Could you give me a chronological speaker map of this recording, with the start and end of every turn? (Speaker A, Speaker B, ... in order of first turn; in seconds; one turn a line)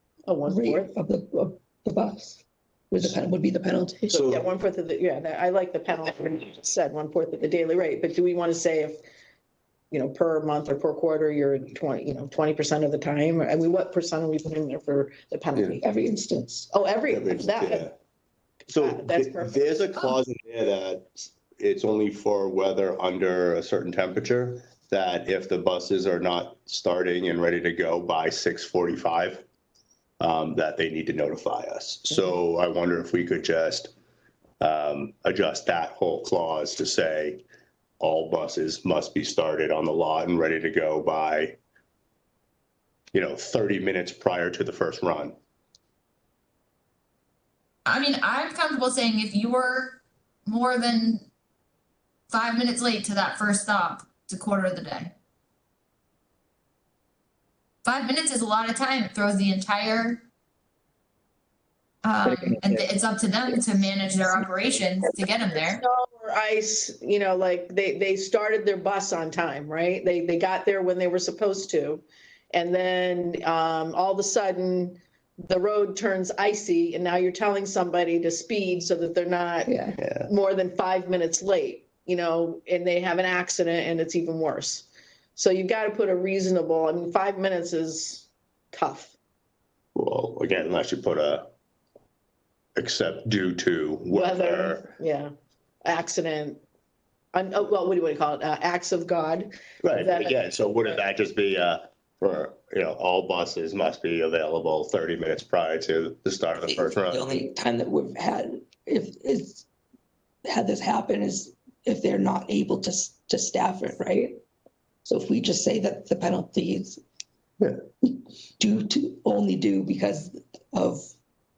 Speaker A: 0.2-0.9
Speaker B: 0.4-4.2
Speaker C: 4.1-4.4
Speaker A: 4.1-9.0
Speaker A: 9.9-15.8
Speaker C: 15.5-15.8
Speaker B: 15.8-16.7
Speaker A: 16.7-17.9
Speaker C: 17.1-17.9
Speaker C: 18.7-29.4
Speaker A: 18.8-19.6
Speaker C: 30.2-33.9
Speaker C: 34.6-37.4
Speaker C: 38.0-41.6
Speaker C: 43.1-45.4
Speaker D: 47.8-51.2
Speaker D: 52.3-55.1
Speaker D: 57.8-60.2
Speaker D: 62.0-65.8
Speaker B: 62.2-62.9
Speaker B: 63.5-63.8
Speaker A: 65.7-79.7
Speaker B: 79.7-80.0
Speaker C: 80.0-80.3
Speaker A: 80.2-89.1
Speaker C: 89.9-91.5
Speaker C: 92.8-94.9
Speaker A: 94.1-95.3
Speaker A: 95.8-96.6
Speaker A: 97.3-100.3
Speaker C: 99.8-107.3
Speaker B: 106.6-109.7
Speaker B: 110.4-114.4
Speaker B: 115.0-117.0
Speaker B: 118.0-121.1